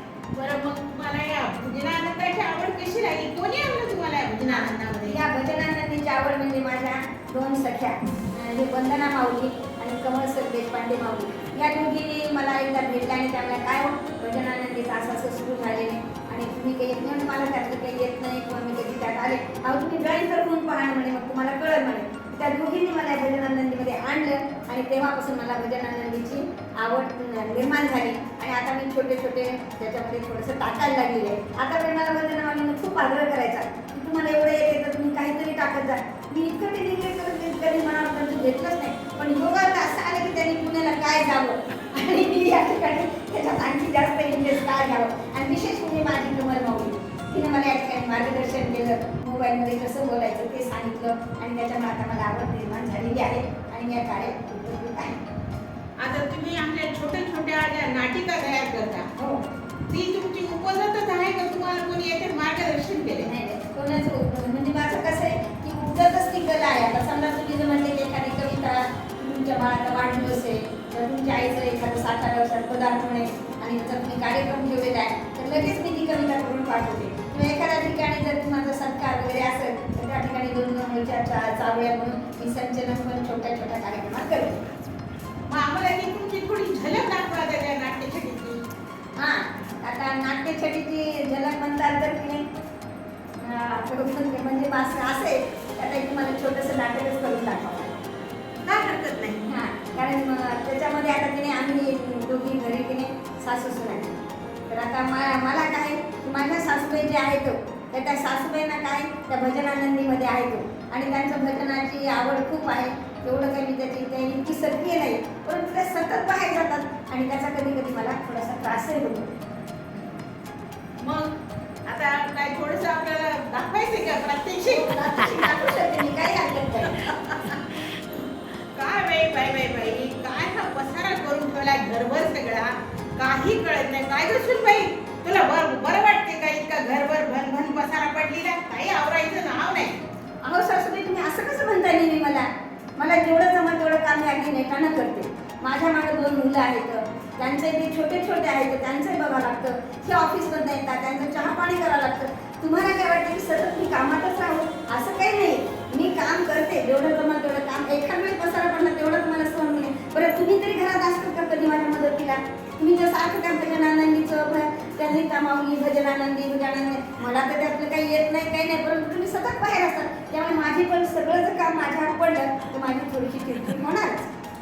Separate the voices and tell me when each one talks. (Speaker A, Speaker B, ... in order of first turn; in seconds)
Speaker A: 0.3-5.2, 56.0-59.1, 59.9-63.3, 85.5-88.6, 98.6-99.5, 121.0-121.3, 121.9-125.2, 126.9-140.0
Speaker B: 4.5-55.2, 59.2-59.4, 63.2-84.6, 89.2-92.4, 93.4-98.0, 99.5-104.2, 104.7-119.3, 124.7-127.0, 140.4-174.3